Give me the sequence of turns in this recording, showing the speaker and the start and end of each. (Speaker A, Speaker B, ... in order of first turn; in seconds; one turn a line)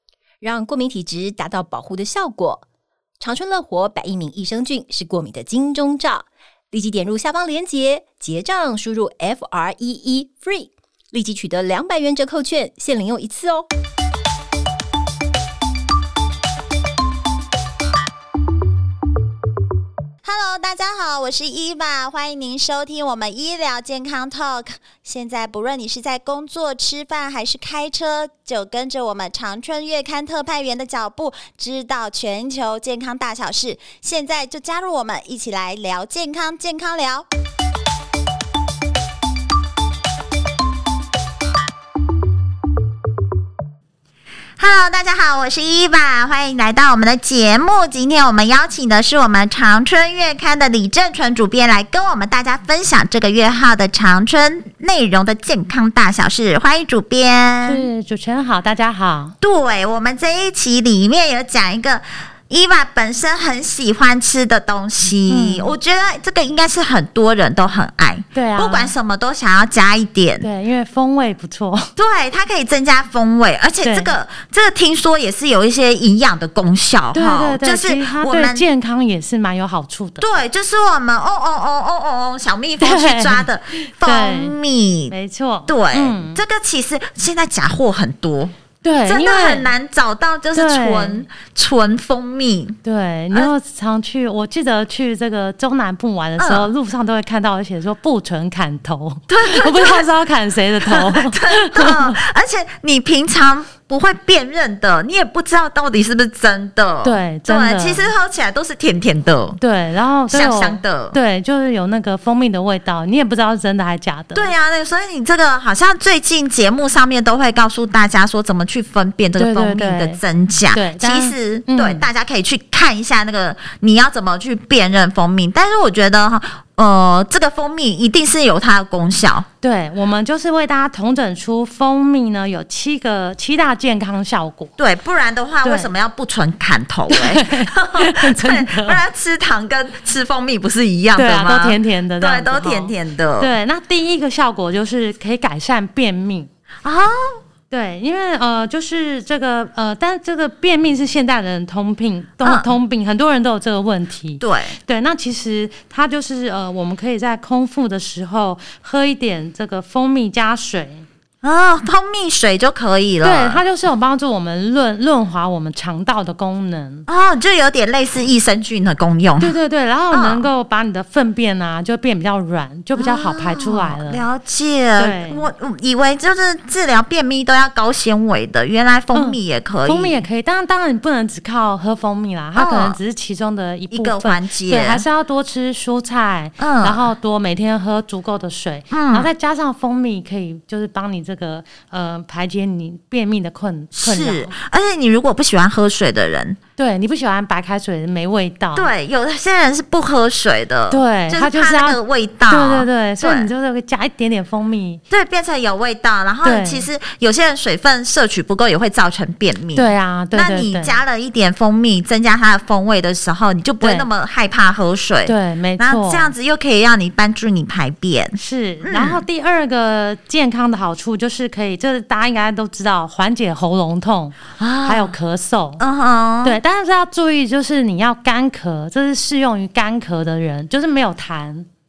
Speaker A: 0.4-2.6
Speaker A: 3.2-13.7
Speaker B: 20.2-37.2
Speaker B: 44.6-57.9
Speaker C: 57.6-59.3
Speaker B: 59.4-70.5
Speaker C: 65.3-65.8
Speaker C: 68.3-68.9
Speaker C: 70.4-71.9
Speaker B: 72.0-78.7
Speaker C: 73.8-74.1
Speaker C: 77.1-80.3
Speaker B: 80.2-85.1
Speaker C: 82.8-84.6
Speaker C: 85.1-86.4
Speaker B: 85.7-88.5
Speaker C: 88.8-89.7
Speaker B: 89.0-92.8
Speaker C: 90.5-91.3
Speaker C: 92.8-102.2
Speaker B: 96.4-96.7
Speaker B: 99.3-100.1
Speaker B: 100.8-109.6
Speaker C: 107.0-108.1
Speaker C: 109.6-114.5
Speaker B: 110.3-111.2
Speaker B: 114.3-129.5
Speaker C: 119.4-120.2
Speaker C: 120.7-122.0
Speaker C: 129.6-134.7
Speaker B: 134.8-143.5
Speaker C: 135.6-135.9
Speaker C: 137.1-139.0
Speaker C: 141.1-146.5
Speaker B: 146.8-147.4
Speaker C: 147.7-161.1
Speaker B: 152.4-152.7
Speaker B: 154.4-154.8
Speaker B: 161.4-163.6
Speaker C: 163.2-167.1
Speaker B: 167.1-169.5
Speaker C: 169.4-174.2
Speaker B: 170.1-170.4
Speaker B: 172.9-180.2
Speaker C: 175.0-175.4
Speaker C: 179.1-194.6
Speaker B: 182.6-183.0
Speaker B: 183.9-185.1
Speaker B: 186.6-187.1
Speaker B: 188.9-189.3
Speaker B: 193.9-196.6
Speaker C: 196.8-198.9
Speaker B: 198.7-203.5
Speaker C: 200.9-205.0
Speaker B: 205.1-219.2
Speaker C: 206.4-206.9
Speaker C: 209.7-211.0
Speaker C: 213.8-214.1
Speaker C: 215.2-216.3
Speaker C: 218.3-225.8
Speaker B: 224.6-225.1
Speaker B: 225.8-226.6
Speaker C: 226.4-231.7